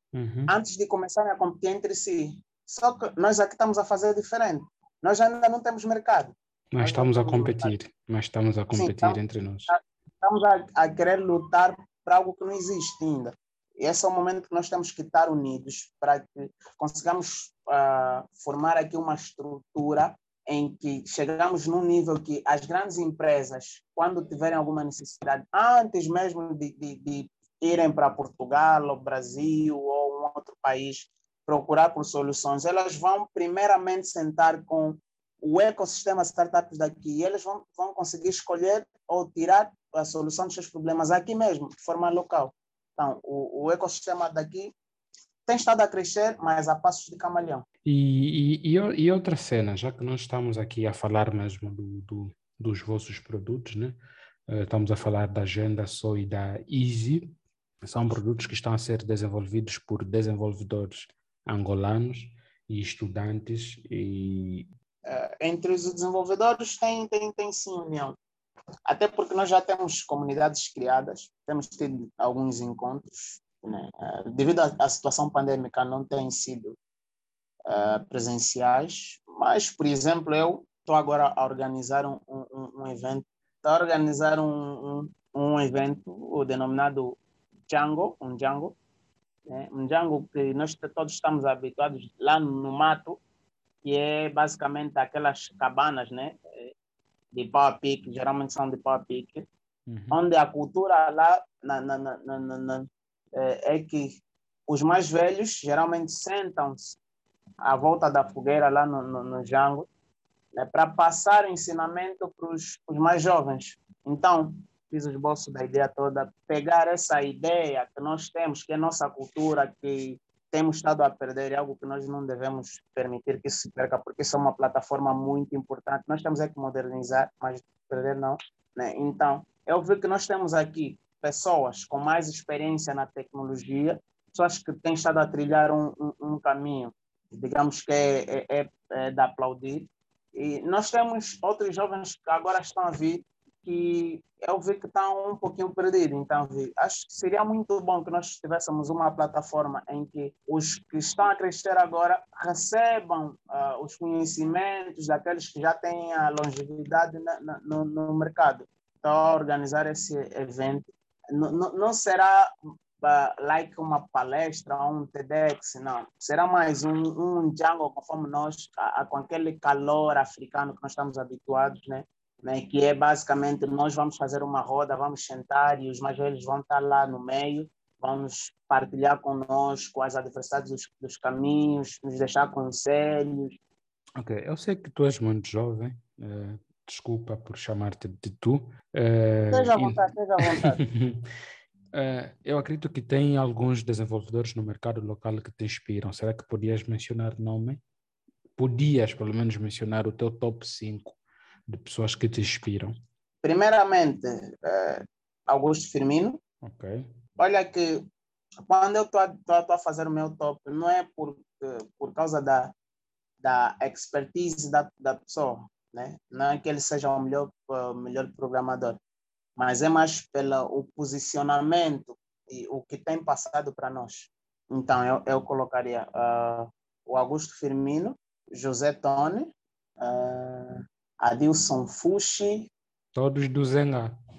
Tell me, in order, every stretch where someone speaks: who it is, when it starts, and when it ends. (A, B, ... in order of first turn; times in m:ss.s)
0:00.1-0:00.5 A
0:00.5-0:07.7 B
0:06.7-0:09.7 A
0:08.7-0:44.7 B
0:45.4-0:47.6 B
0:47.8-0:57.3 A
0:57.8-1:04.7 A
1:05.0-1:08.2 B
1:08.9-1:16.8 B
1:17.7-1:28.8 B
1:29.5-1:33.2 B
1:33.8-1:36.7 B
1:37.3-1:39.4 B
1:39.9-1:40.2 A
1:40.1-1:47.0 B
1:47.6-1:49.9 B
1:50.6-2:42.5 B
2:43.0-3:03.6 B
3:04.2-3:10.0 A
3:09.5-3:10.8 B
3:10.6-3:11.2 A
3:11.9-3:17.8 A
3:18.6-3:23.0 A
3:23.4-3:26.4 B
3:26.6-3:27.1 A
3:27.4-3:28.0 B
3:28.7-3:32.7 B
3:33.4-3:39.0 B
3:39.6-3:52.7 B
3:53.1-3:54.2 A